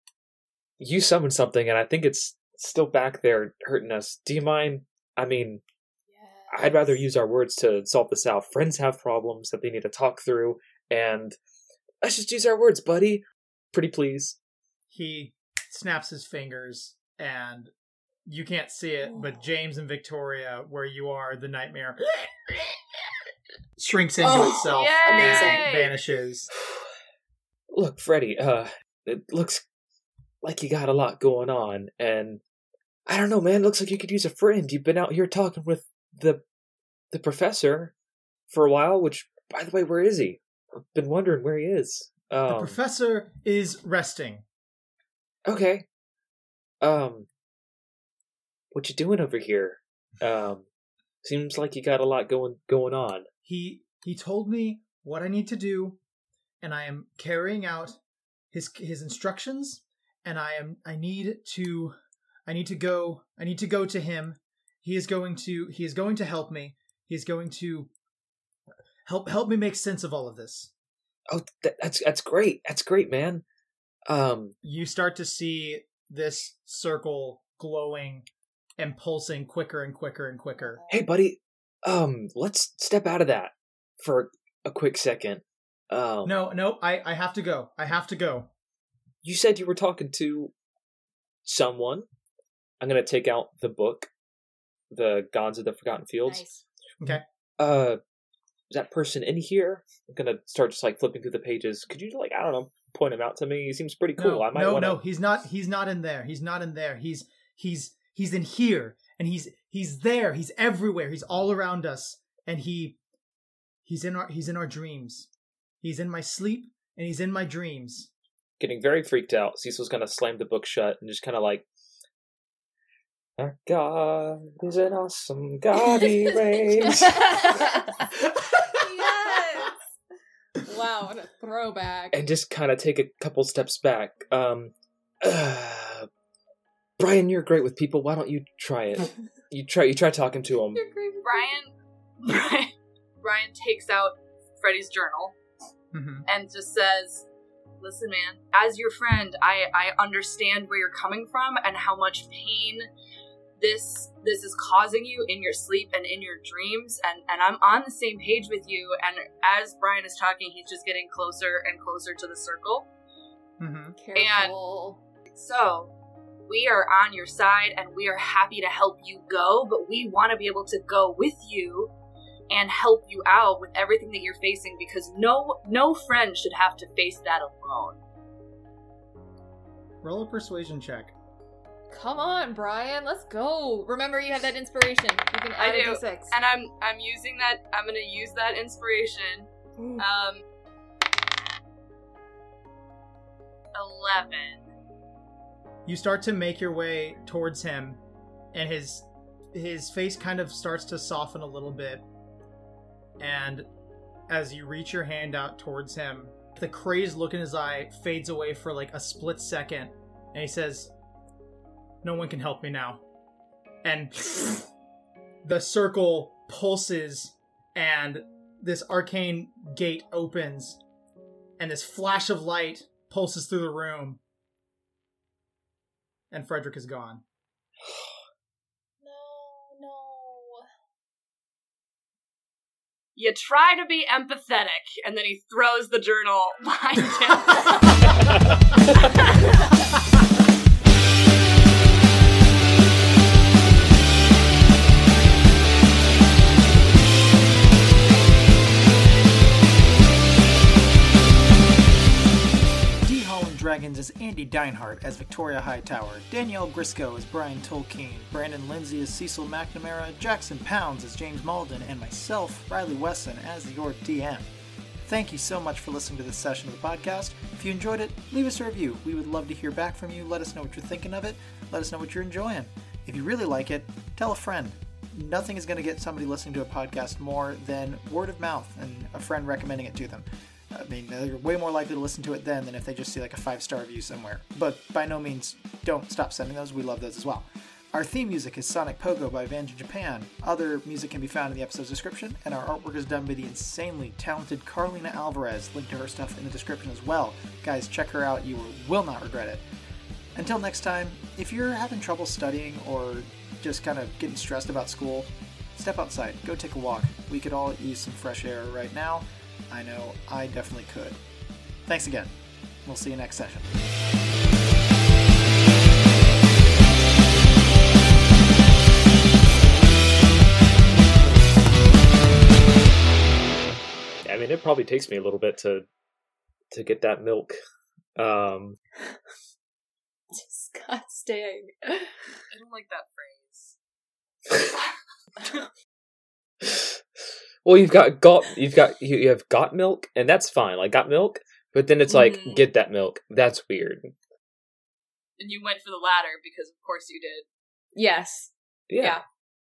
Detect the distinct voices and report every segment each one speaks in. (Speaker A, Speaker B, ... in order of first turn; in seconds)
Speaker A: 0.8-5.6, 6.5-11.3, 12.0-14.4, 27.7-29.6, 30.4-32.4, 33.1-36.4, 37.1-37.9, 38.5-40.4, 40.9-42.8, 45.5-45.9, 46.8-47.3, 48.7-50.7, 51.2-53.2, 71.3-73.4, 74.1-74.5, 80.9-83.5, 84.0-86.3, 89.2-90.5, 91.4-92.0, 92.8-94.1, 94.9-96.4, 97.0-98.0, 98.7-105.0, 118.6-121.7, 123.4-127.7, 132.1-134.7, 135.2-136.1, 137.0-140.8, 324.2-325.9, 326.7-327.6, 328.1-328.8, 336.6-336.9, 337.6-344.1, 348.9-349.2
Speaker B: 6.1-7.0, 24.2-25.6, 80.6-81.0, 96.2-96.6, 125.9-128.1, 128.7-129.8, 130.6-132.2, 140.7-141.5, 164.0-165.0, 181.9-186.3, 189.8-190.0, 229.0-230.7, 330.3-332.2, 342.1-342.6, 347.9-348.5
Speaker C: 14.9-17.7, 18.2-22.7, 23.8-26.5, 42.5-44.4, 53.5-56.0, 56.6-58.0, 58.5-61.9, 62.5-67.9, 69.0-70.7, 74.6-78.3, 78.8-80.8, 86.2-88.5, 104.2-113.0, 113.8-115.3, 115.8-118.1, 128.3-128.8, 145.9-146.2, 163.6-164.0, 180.0-181.1, 195.8-198.0, 198.5-202.1, 203.2-203.7, 204.3-210.9, 212.0-213.0, 213.8-214.7, 215.4-220.8, 221.6-224.2, 226.3-227.2, 253.0-264.5, 265.0-299.6, 300.4-311.2, 311.8-312.3, 312.8-313.8
Speaker D: 24.2-26.0, 141.2-145.4, 146.3-147.2, 147.8-152.9, 153.6-162.9, 164.1-164.5, 165.3-165.9, 166.5-171.9, 172.5-178.0, 185.6-190.4, 193.7-194.6, 233.1-238.4, 238.9-239.6, 332.5-333.8, 334.5-334.9, 345.4-347.4